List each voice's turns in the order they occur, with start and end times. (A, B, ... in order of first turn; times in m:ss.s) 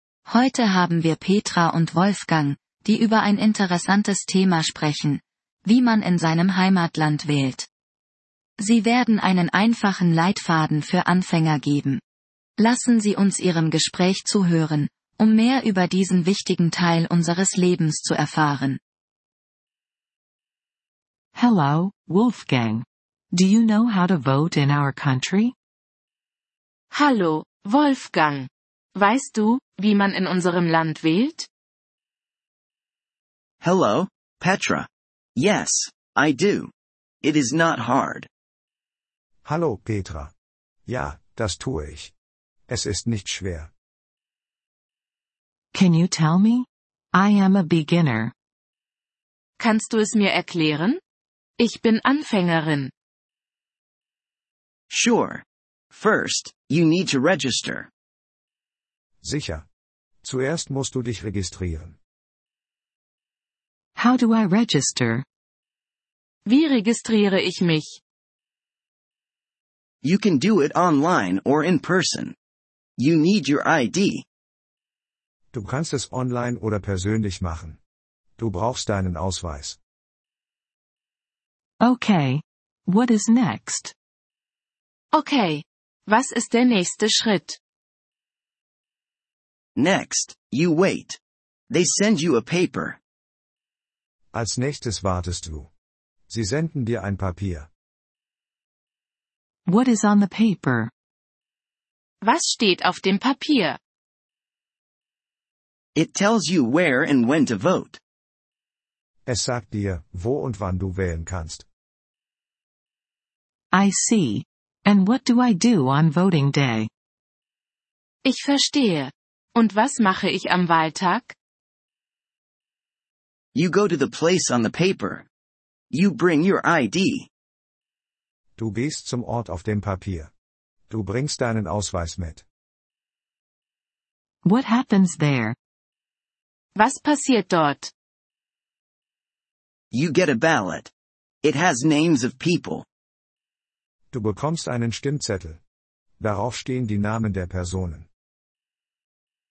0:00.2-0:07.7 A
0:08.6-0:12.0 A
0:12.6-0:18.8 A
0:21.4-0:25.5 B
0:26.9-0:31.5 C
0:33.6-0:36.7 D
0:37.2-0:38.3 D
0:39.4-0:40.3 E
0:40.8-0:42.1 E
0:42.7-0:43.7 E
0:45.7-0:48.3 B
0:49.6-0:51.0 C
0:51.6-0:52.9 C
0:54.9-0:57.9 D
0:59.2-0:59.6 E
1:00.2-1:02.0 E
1:04.0-1:05.2 B
1:06.4-1:08.0 C
1:10.0-1:12.3 D
1:13.0-1:14.2 D
1:15.5-1:17.8 E
1:18.4-1:19.8 E
1:21.8-1:23.9 B
1:25.1-1:27.6 C
1:29.8-1:31.2 D
1:31.7-1:33.0 D
1:34.3-1:35.7 E
1:36.3-1:37.7 E
1:39.6-1:40.9 B
1:42.2-1:43.8 C
1:45.9-1:48.0 D
1:49.2-1:51.6 E
1:53.7-1:56.9 B
1:58.2-2:01.3 C
2:03.5-2:05.2 D
2:05.9-2:07.3 D
2:08.6-2:10.3 E
2:10.9-2:12.4 E
2:14.4-2:15.6 B
2:16.8-2:17.9 C
2:19.9-2:20.9 D
2:21.4-2:22.8 D
2:24.1-2:25.6 E
2:26.2-2:28.1 E